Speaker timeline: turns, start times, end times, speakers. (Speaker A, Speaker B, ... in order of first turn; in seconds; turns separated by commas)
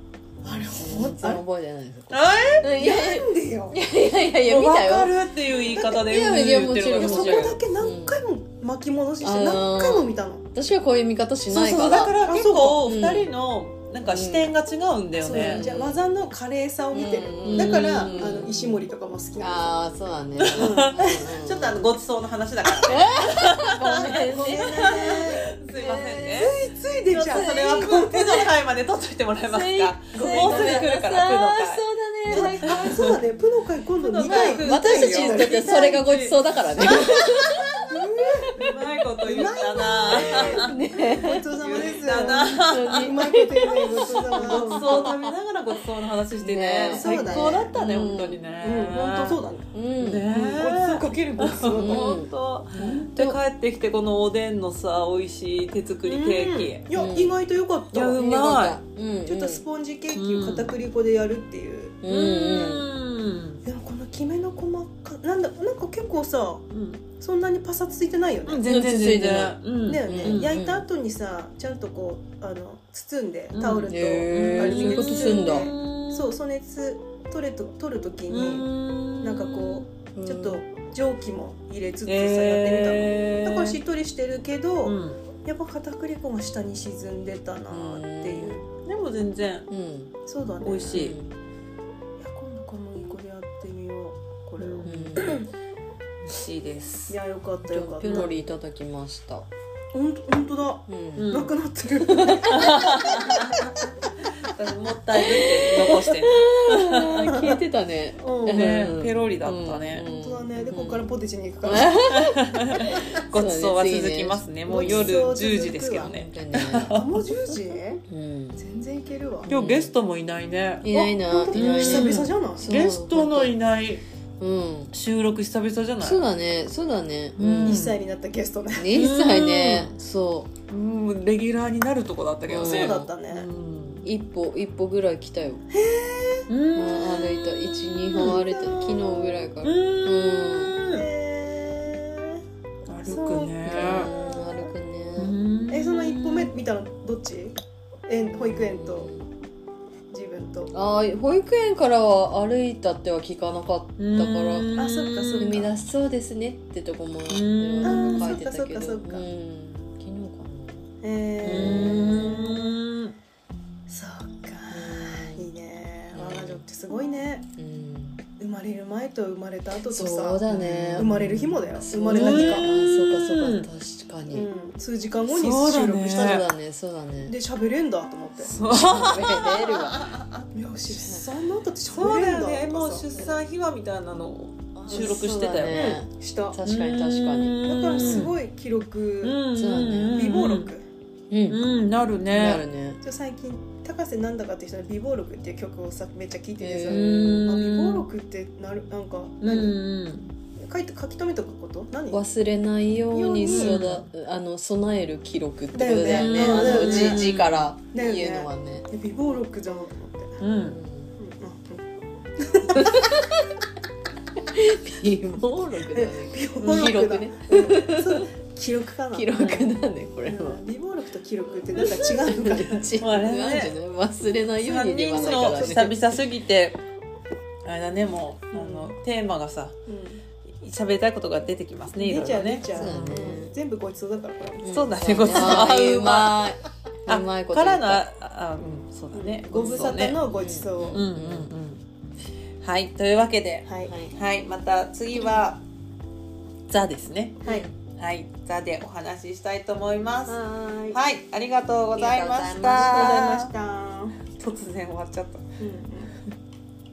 Speaker A: 0.4-1.4, Speaker B: 0.7-5.1, Speaker C: 2.1-2.7, Speaker A: 2.8-3.8, Speaker C: 4.4-7.6, Speaker A: 5.7-6.3, Speaker B: 6.0-8.2, Speaker A: 6.9-10.4, Speaker B: 9.2-12.2, Speaker C: 11.5-15.7, Speaker A: 11.9-12.8, Speaker B: 12.8-13.3, Speaker B: 14.0-14.5, Speaker A: 15.2-19.8, Speaker B: 15.3-16.0, Speaker B: 16.9-18.8, Speaker C: 17.4-18.1, Speaker B: 19.4-21.9, Speaker C: 20.4-33.2, Speaker A: 20.5-21.2, Speaker B: 22.7-26.4, Speaker A: 24.3-25.5, Speaker A: 26.3-28.5, Speaker B: 29.4-33.1, Speaker A: 30.1-30.9, Speaker A: 32.3-35.8, Speaker C: 34.0-37.5, Speaker B: 34.2-37.9, Speaker A: 37.9-38.5, Speaker C: 38.6-40.7, Speaker A: 39.2-45.1, Speaker B: 39.4-41.5, Speaker C: 41.5-49.4, Speaker B: 42.5-45.3, Speaker B: 46.4-48.4, Speaker A: 46.9-47.7, Speaker A: 48.6-49.6, Speaker B: 49.7-50.3, Speaker C: 50.0-56.9, Speaker A: 50.3-52.0, Speaker B: 51.7-53.4, Speaker A: 56.0-58.1, Speaker B: 56.9-57.4, Speaker C: 57.9-58.8, Speaker B: 58.1-59.6, Speaker A: 59.2-62.0, Speaker C: 60.1-60.7, Speaker B: 62.0-62.9, Speaker C: 62.0-63.6, Speaker A: 63.6-66.7, Speaker C: 66.7-67.0, Speaker A: 67.2-68.6, Speaker C: 68.5-70.6, Speaker B: 68.6-70.8, Speaker A: 69.8-78.7, Speaker C: 73.5-76.3, Speaker B: 73.9-75.7, Speaker C: 78.3-79.9, Speaker A: 79.2-88.6, Speaker B: 80.1-80.6, Speaker C: 82.0-83.8, Speaker C: 84.8-85.2, Speaker B: 87.7-88.6, Speaker C: 88.8-89.7, Speaker B: 89.7-90.1, Speaker A: 90.2-91.0, Speaker C: 90.6-91.2, Speaker B: 90.9-91.3, Speaker A: 92.2-95.5, Speaker C: 94.6-95.4, Speaker B: 94.8-95.4, Speaker C: 96.3-97.2, Speaker A: 97.1-98.3, Speaker B: 97.7-99.5, Speaker C: 98.0-98.5, Speaker A: 99.9-103.3, Speaker B: 100.9-101.3, Speaker C: 101.2-101.5, Speaker B: 102.1-103.2, Speaker C: 102.5-103.6, Speaker C: 104.4-107.3, Speaker B: 105.2-111.1, Speaker A: 107.3-107.5, Speaker A: 108.2-108.6, Speaker C: 108.5-110.1, Speaker A: 110.2-111.9, Speaker B: 111.6-115.3, Speaker C: 111.9-117.1, Speaker A: 114.7-116.1, Speaker B: 116.0-116.9, Speaker A: 116.9-118.0, Speaker B: 118.1-118.6, Speaker A: 118.5-119.5, Speaker B: 119.5-119.9, Speaker C: 119.5-121.0, Speaker B: 120.8-123.6, Speaker A: 121.3-122.7, Speaker C: 121.5-124.0, Speaker B: 124.4-124.9, Speaker C: 124.9-126.2, Speaker B: 126.0-127.9, Speaker C: 127.4-128.0, Speaker A: 127.6-128.9, Speaker B: 128.8-130.5, Speaker C: 128.9-129.9, Speaker C: 130.7-134.1, Speaker B: 132.5-133.1, Speaker A: 132.6-133.5, Speaker B: 134.0-135.7, Speaker A: 135.7-136.5, Speaker C: 136.5-138.4, Speaker B: 136.7-140.8, Speaker A: 138.4-139.3, Speaker C: 139.6-141.0, Speaker A: 140.9-142.4, Speaker C: 142.9-144.1, Speaker A: 143.0-143.6, Speaker B: 143.6-145.3, Speaker C: 145.2-146.5, Speaker A: 145.7-149.1, Speaker B: 148.3-149.3, Speaker A: 150.1-150.7, Speaker B: 150.7-154.7, Speaker C: 154.0-155.7, Speaker A: 154.8-155.7, Speaker B: 155.4-162.4, Speaker C: 157.3-158.4, Speaker A: 157.8-159.2, Speaker A: 161.0-162.8, Speaker C: 161.4-163.1, Speaker A: 163.9-167.5, Speaker B: 164.7-165.5, Speaker B: 166.1-166.6, Speaker B: 167.6-168.2, Speaker A: 168.4-172.7, Speaker B: 169.9-174.5, Speaker C: 170.5-171.1, Speaker C: 172.1-173.7, Speaker A: 174.3-176.4, Speaker C: 175.3-176.4, Speaker B: 176.0-177.3, Speaker A: 177.2-178.5, Speaker C: 178.4-180.4, Speaker B: 178.7-180.1, Speaker A: 180.5-183.2, Speaker B: 180.9-181.2, Speaker C: 181.9-186.0, Speaker B: 184.8-188.3, Speaker A: 185.7-186.6, Speaker C: 186.6-188.3, Speaker A: 187.6-189.4, Speaker C: 189.2-190.7, Speaker B: 189.5-190.3, Speaker A: 190.1-190.8, Speaker B: 191.3-191.6, Speaker C: 191.5-192.7, Speaker B: 192.3-193.0, Speaker A: 193.0-199.7, Speaker B: 196.6-197.5, Speaker C: 196.8-198.1, Speaker C: 199.4-200.3, Speaker A: 200.6-202.2, Speaker B: 202.1-208.8, Speaker A: 203.1-203.7, Speaker C: 203.5-204.1, Speaker A: 205.7-207.2, Speaker C: 206.0-207.7, Speaker A: 207.9-210.4, Speaker C: 210.4-210.8, Speaker B: 210.6-211.1, Speaker A: 211.2-213.0, Speaker B: 212.8-213.4, Speaker B: 214.5-218.3, Speaker A: 215.9-219.2, Speaker B: 219.1-220.6, Speaker C: 219.4-219.7, Speaker A: 220.2-223.3, Speaker B: 221.8-226.0, Speaker C: 222.8-223.8, Speaker C: 224.6-226.8, Speaker A: 225.2-225.8, Speaker C: 227.6-229.8, Speaker A: 228.5-229.0, Speaker A: 229.8-230.2, Speaker C: 230.6-233.2, Speaker A: 231.9-234.7, Speaker B: 232.7-233.5, Speaker B: 234.6-238.0, Speaker C: 234.7-236.5, Speaker C: 237.1-240.2, Speaker A: 239.1-241.1, Speaker B: 239.5-241.5, Speaker C: 240.9-241.8, Speaker C: 242.6-245.6, Speaker A: 243.6-243.9, Speaker B: 243.8-244.1, Speaker C: 246.7-253.5, Speaker A: 250.2-251.0, Speaker B: 251.9-253.2, Speaker A: 252.9-254.2, Speaker C: 254.3-255.4, Speaker A: 255.6-256.1